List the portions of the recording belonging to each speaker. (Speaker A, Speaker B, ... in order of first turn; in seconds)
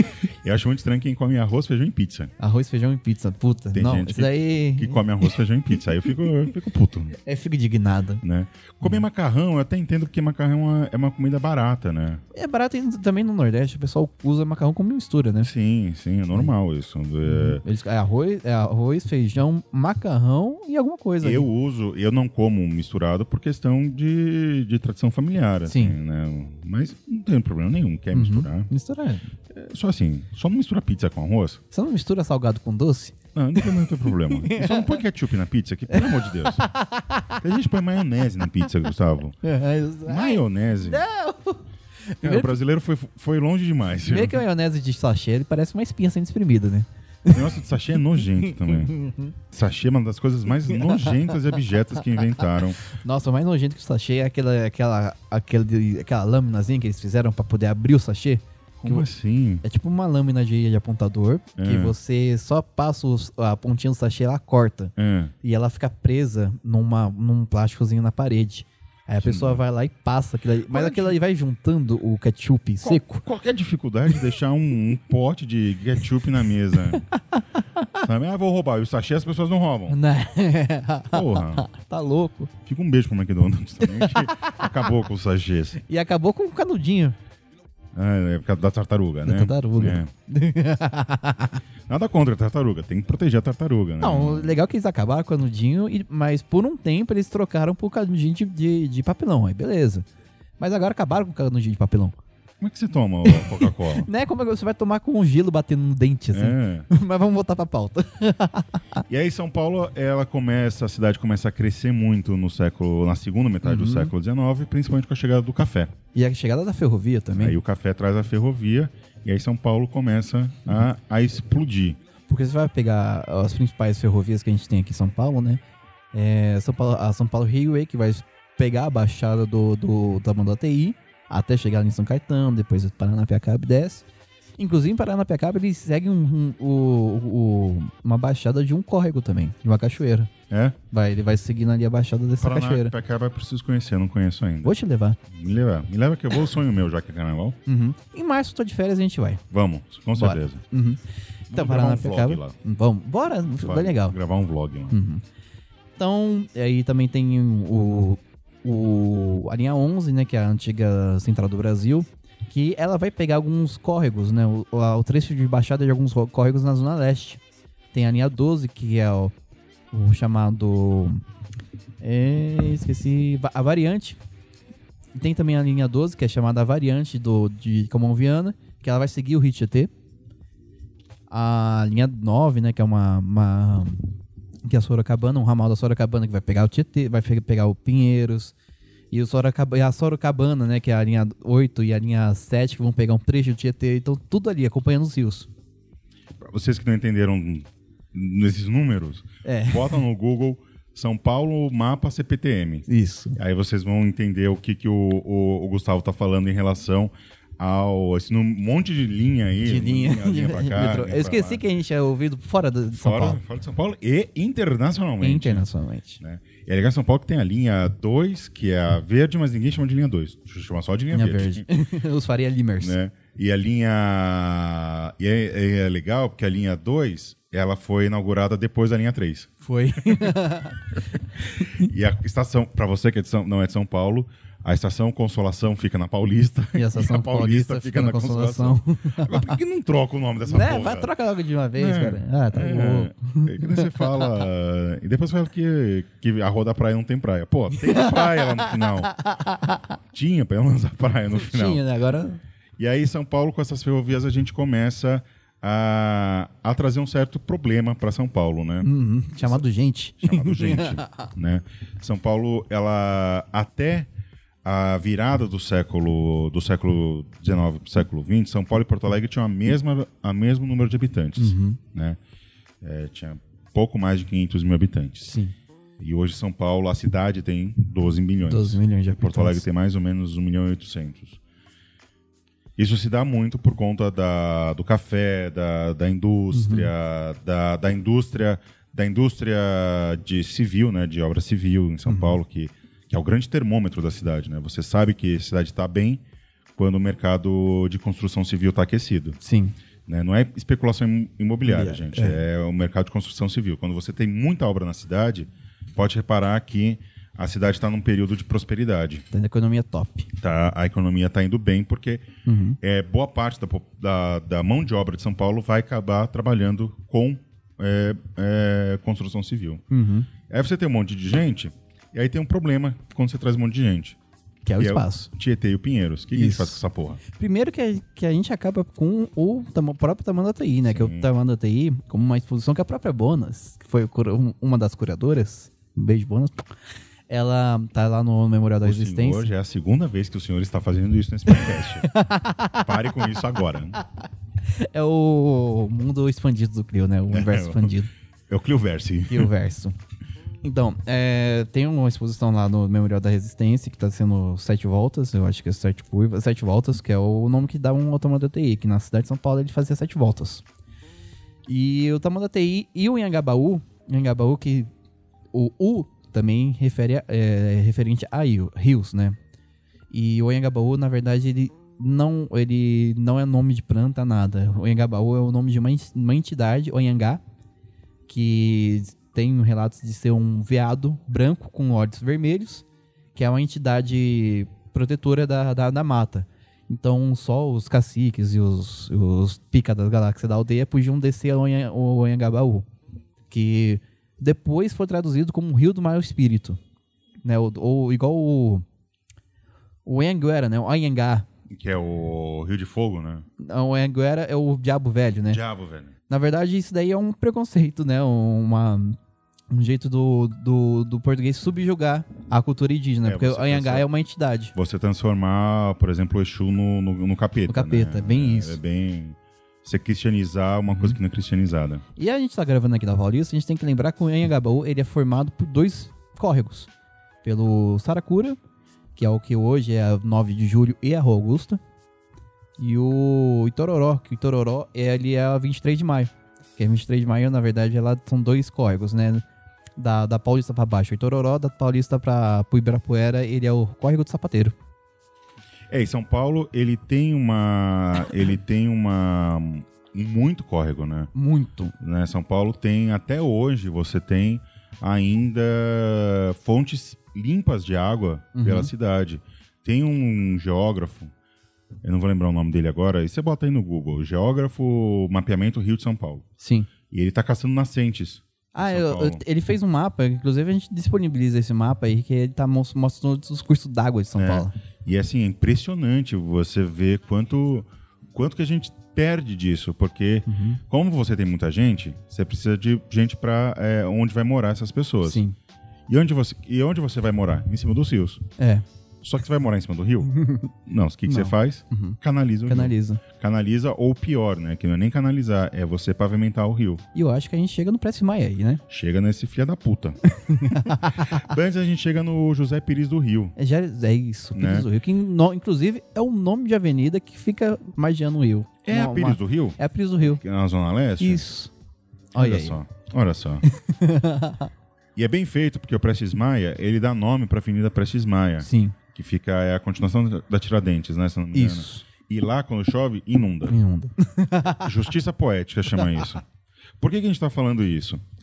Speaker A: 0.4-2.3, 3.7-7.2, 8.2-12.2, 15.4-17.6, 21.2-28.7, 29.5-31.6, 33.3-36.7, 37.4-39.4, 40.0-41.0, 42.2-44.4, 47.3-49.0, 49.5-52.8, 58.8-59.6, 61.6-62.0, 65.0-65.3, 69.2-69.6, 70.7-71.2, 72.8-77.0, 78.0-80.0, 81.1-81.7, 82.6-85.8, 87.9-90.1, 91.9-94.6, 102.6-104.1, 106.3-106.9, 109.1-115.9, 117.4-122.0, 140.5-140.8, 142.4-144.8, 145.3-147.6, 149.5-150.6, 151.5-152.6, 153.6-155.0, 196.4-211.6, 212.9-215.7, 216.2-221.6, 222.8-230.3, 231.8-241.1, 241.8-249.1, 250.1-251.8, 252.8-258.9, 260.2-264.1, 264.6-272.2, 272.8-275.3, 276.0-281.4, 282.8-296.2, 296.8-299.4, 300.1-309.3, 310.4-312.3, 312.8-319.8, 320.5-324.2, 324.8-327.2, 330.8-331.3, 338.8-342.1, 342.8-344.0, 347.3-347.9, 348.5-349.5, 401.7-403.4, 405.5-406.1, 413.2-414.1, 414.7-422.0, 445.9-451.3, 452.0-461.3, 462.0-466.4, 467.1-469.4, 474.4-485.4, 486.1-488.4, 489.2-490.3, 490.8-497.0, 498.9-503.6, 504.6-504.9, 508.8-511.4, 512.4-513.6, 515.1-523.8, 524.8-526.4, 527.0-528.2
Speaker B: 2.4-5.3, 7.2-8.2, 12.3-15.5, 17.2-21.5, 25.6-25.9, 28.1-29.3, 31.7-35.0, 35.9-37.4, 39.4-42.5, 44.1-47.5, 48.4-49.3, 50.7-51.4, 52.0-59.0, 59.6-73.2, 77.3-77.9, 79.9-82.5, 83.8-84.7, 85.8-87.2, 89.2-91.6, 94.0-100.1, 100.6-102.2, 103.2-109.0, 113.6-114.1, 116.1-117.6, 122.3-125.6, 126.1-134.1, 134.6-140.3, 140.9-142.9, 144.6-145.2, 147.7-149.4, 150.2-151.0, 151.5-154.2, 154.9-155.2, 156.0-167.4, 167.9-169.3, 169.9-171.2, 172.0-174.2, 175.1-179.9, 181.3-184.0, 184.6-188.6, 189.1-195.5, 199.4-200.0, 202.9-203.4, 209.6-213.4, 215.2-216.2, 221.1-223.0, 229.6-230.9, 231.6-231.9, 236.7-239.5, 240.4-244.3, 247.7-249.9, 251.3-252.4, 258.8-261.3, 271.4-271.8, 275.3-275.5, 278.4-279.6, 286.5-286.9, 292.1-292.4, 299.4-299.7, 301.6-302.4, 309.3-310.3, 312.4-312.8, 319.9-320.3, 324.6-325.3, 326.3-336.7, 337.3-339.5, 342.0-343.2, 344.7-348.1, 349.3-349.9, 350.6-360.6, 361.7-364.9, 365.5-369.4, 370.1-377.4, 378.3-392.9, 393.5-396.8, 397.4-398.8, 400.1-401.4, 403.6-405.6, 406.3-409.2, 409.7-414.7, 417.7-418.8, 420.9-421.1, 422.1-426.9, 427.4-428.6, 429.1-431.8, 432.8-439.4, 440.0-444.7, 451.3-451.9, 458.6-458.9, 466.6-466.9, 468.7-474.7, 480.5-480.8, 485.2-485.6, 488.6-488.8, 490.3-490.7, 491.3-493.2, 497.1-498.8, 500.3-501.4, 503.6-510.4, 511.2-511.7, 512.3-512.8, 513.6-514.7, 518.6-519.0, 521.5-522.0, 523.7-524.9